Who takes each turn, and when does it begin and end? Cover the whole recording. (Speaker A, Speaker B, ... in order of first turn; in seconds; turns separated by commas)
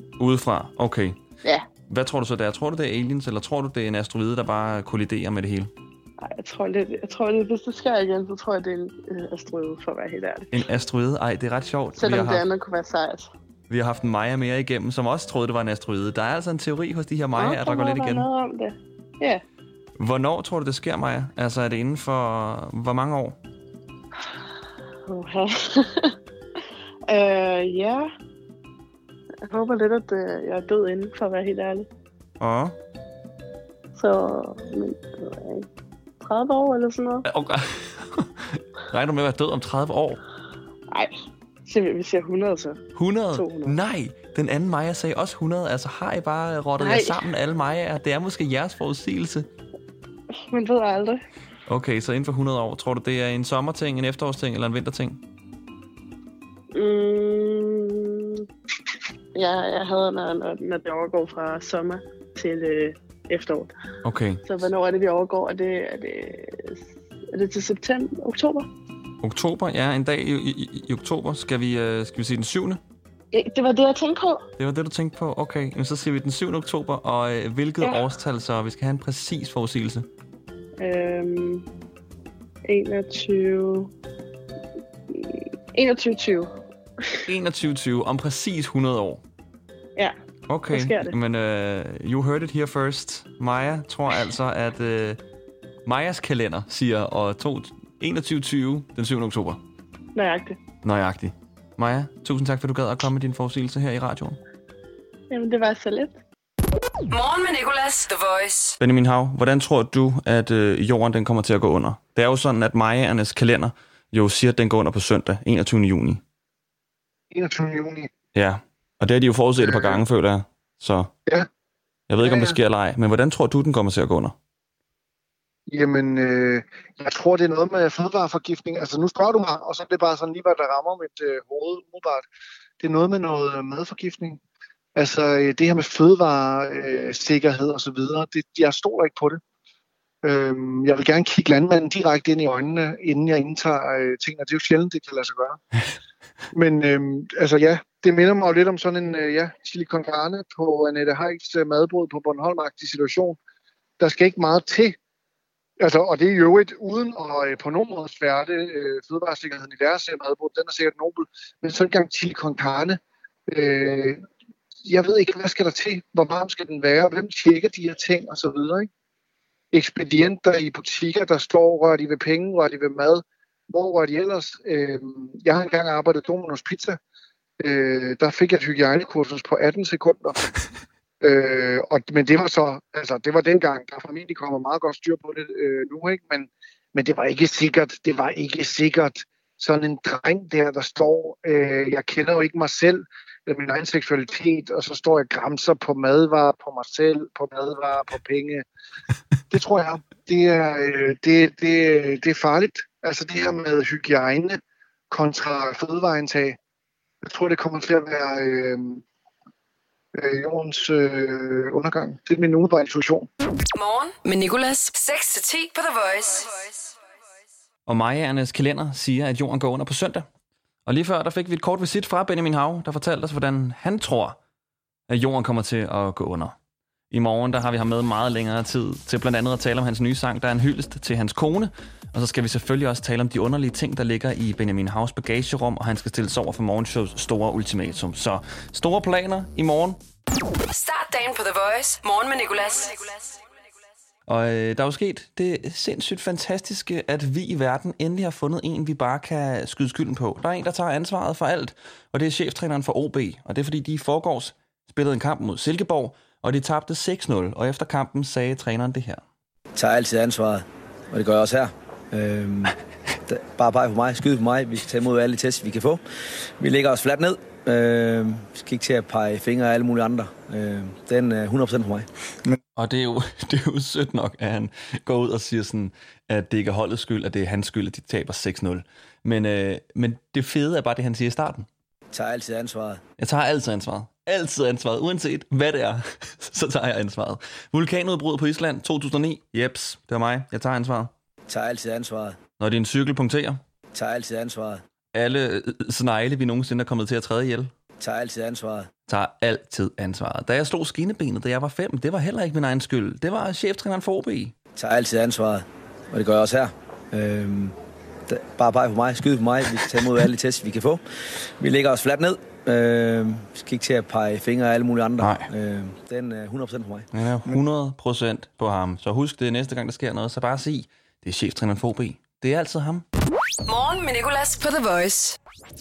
Speaker A: 0.2-1.2, Speaker A: 1.9-5.7, Speaker B: 6.2-10.6, Speaker A: 10.5-12.4, Speaker B: 12.0-13.3, Speaker A: 13.7-18.3, Speaker B: 17.4-19.4, Speaker A: 20.0-23.4, Speaker B: 25.1-26.1, Speaker B: 27.1-28.1, Speaker B: 29.5-31.9, Speaker A: 32.4-32.7, Speaker B: 33.9-35.7, Speaker B: 36.2-37.2, Speaker A: 37.3-40.2, Speaker B: 41.6-42.8, Speaker A: 43.0-49.5, Speaker B: 43.3-43.8, Speaker B: 46.8-47.3, Speaker B: 50.5-51.2, Speaker A: 51.7-55.2, Speaker B: 56.7-58.4, Speaker B: 59.3-63.7, Speaker A: 64.0-64.6, Speaker B: 64.5-66.8, Speaker B: 67.3-68.7, Speaker A: 69.2-72.8, Speaker B: 73.3-74.4, Speaker A: 74.6-80.1, Speaker B: 80.8-81.6, Speaker B: 82.7-83.9, Speaker B: 85.1-86.5, Speaker A: 87.2-89.2, Speaker A: 90.5-95.2, Speaker B: 90.7-91.1, Speaker A: 95.8-99.6, Speaker B: 100.2-100.6, Speaker A: 100.8-104.4, Speaker B: 105.3-106.1, Speaker C: 107.1-108.8, Speaker A: 108.8-116.2, Speaker D: 117.3-118.1, Speaker A: 118.3-121.1, Speaker D: 119.6-120.0, Speaker A: 122.1-124.3, Speaker D: 122.2-122.6, Speaker D: 125.7-132.2, Speaker D: 132.8-134.4, Speaker D: 134.9-139.4, Speaker D: 140.2-145.6, Speaker D: 146.5-153.4, Speaker D: 154.0-154.9, Speaker D: 155.8-164.2, Speaker D: 164.8-168.9, Speaker D: 169.7-177.0, Speaker D: 177.6-180.5, Speaker D: 181.2-198.6, Speaker D: 199.5-204.6, Speaker D: 205.1-206.6, Speaker D: 207.2-209.0, Speaker D: 210.2-213.3, Speaker C: 213.7-216.7, Speaker A: 217.8-220.2, Speaker A: 220.8-224.4, Speaker A: 225.1-226.5, Speaker A: 227.1-240.0, Speaker C: 240.7-243.3, Speaker A: 244.3-259.2, Speaker E: 259.7-266.0, Speaker E: 266.6-272.1, Speaker A: 272.8-281.7, Speaker E: 282.1-283.0, Speaker A: 283.2-291.1, Speaker E: 291.5-292.4, Speaker A: 292.6-293.6, Speaker E: 293.9-294.8, Speaker A: 295.1-297.7, Speaker E: 298.0-298.9, Speaker A: 299.1-304.5, Speaker E: 304.8-307.7, Speaker E: 308.3-311.0, Speaker E: 311.6-317.6, Speaker A: 315.2-315.5, Speaker A: 317.1-323.0, Speaker C: 323.6-325.4